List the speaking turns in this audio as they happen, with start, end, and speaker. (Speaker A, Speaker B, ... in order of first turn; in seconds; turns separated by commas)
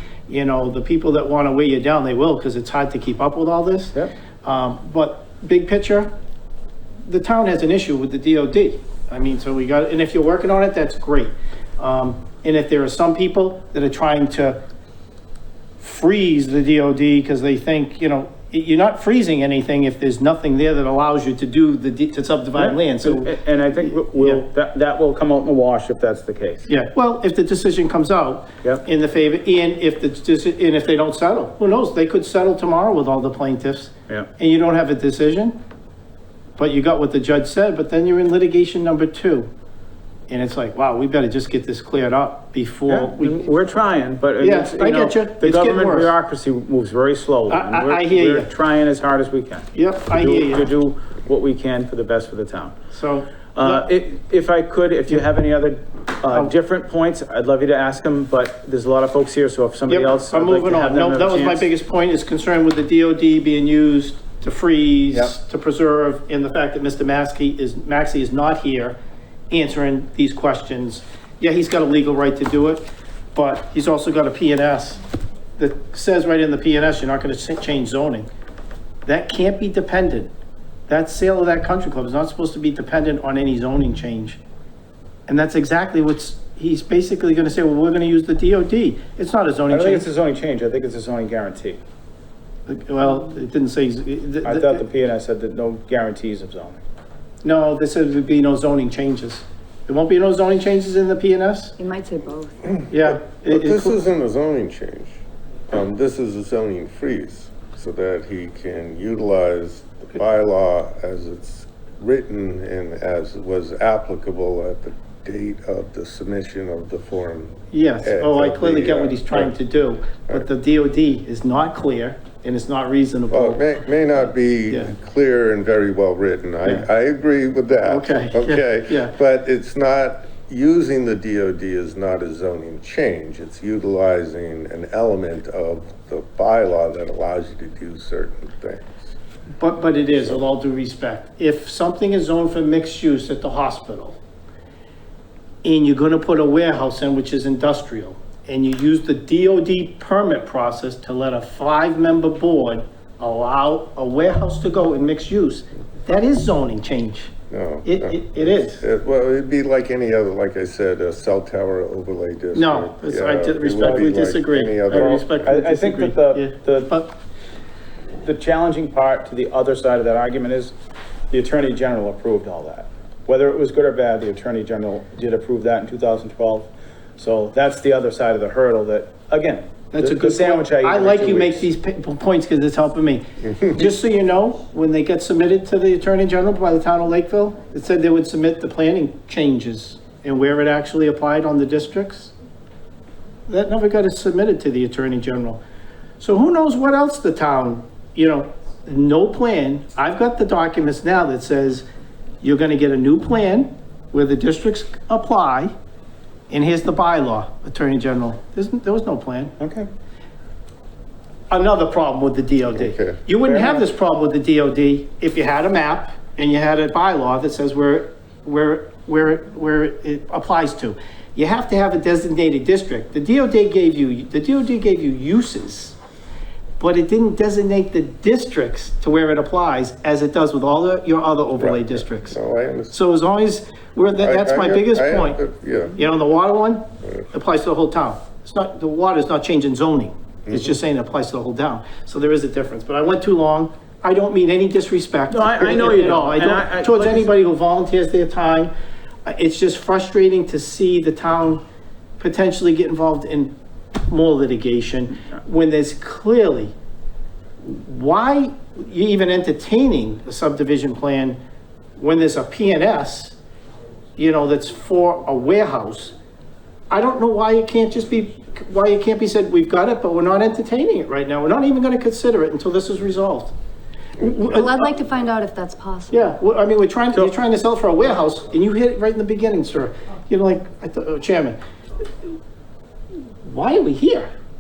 Speaker A: 0.3-6.1, Speaker A: 7.1-14.6, Speaker A: 15.8-24.4, Speaker B: 22.5-26.7, Speaker A: 26.7-35.6, Speaker A: 36.6-39.5, Speaker A: 40.3-43.6, Speaker B: 42.9-52.8, Speaker A: 44.4-46.1, Speaker A: 47.5-48.5, Speaker A: 49.7-50.7, Speaker A: 52.9-53.8, Speaker B: 53.5-61.7, Speaker A: 59.9-69.0, Speaker A: 69.5-72.8, Speaker A: 73.3-75.0, Speaker A: 75.6-78.3, Speaker A: 79.0-80.3, Speaker A: 80.9-84.4, Speaker A: 85.3-90.0, Speaker B: 89.7-91.8, Speaker A: 92.7-94.8, Speaker B: 94.4-96.8, Speaker A: 97.4-101.8, Speaker C: 101.8-102.7, Speaker A: 102.9-104.0, Speaker D: 103.2-119.5, Speaker A: 117.7-123.7, Speaker D: 123.3-139.1, Speaker A: 124.7-124.9, Speaker A: 127.8-129.1, Speaker A: 139.6-144.2, Speaker D: 140.1-140.4, Speaker A: 145.6-157.3, Speaker D: 157.5-165.5, Speaker A: 157.8-158.8, Speaker A: 162.5-167.1, Speaker B: 163.8-164.1, Speaker B: 164.9-167.0, Speaker B: 168.2-170.7, Speaker B: 171.3-181.7, Speaker A: 179.9-192.3, Speaker D: 183.4-183.7, Speaker A: 193.5-195.6, Speaker A: 196.2-201.9, Speaker A: 202.4-205.7, Speaker A: 206.5-209.5, Speaker B: 209.6-209.9, Speaker A: 211.5-225.9, Speaker D: 212.7-213.2, Speaker B: 213.4-213.8, Speaker A: 226.8-232.3, Speaker D: 231.6-232.9, Speaker A: 232.9-235.4, Speaker D: 234.2-236.0, Speaker A: 235.9-248.7, Speaker B: 245.3-247.3, Speaker A: 249.2-251.6, Speaker A: 252.2-253.5, Speaker A: 254.1-256.7, Speaker A: 257.6-261.4, Speaker A: 262.0-263.4, Speaker A: 264.2-266.1, Speaker A: 266.9-273.5, Speaker A: 274.2-274.9, Speaker C: 274.4-276.2, Speaker A: 276.1-281.6, Speaker A: 283.4-284.3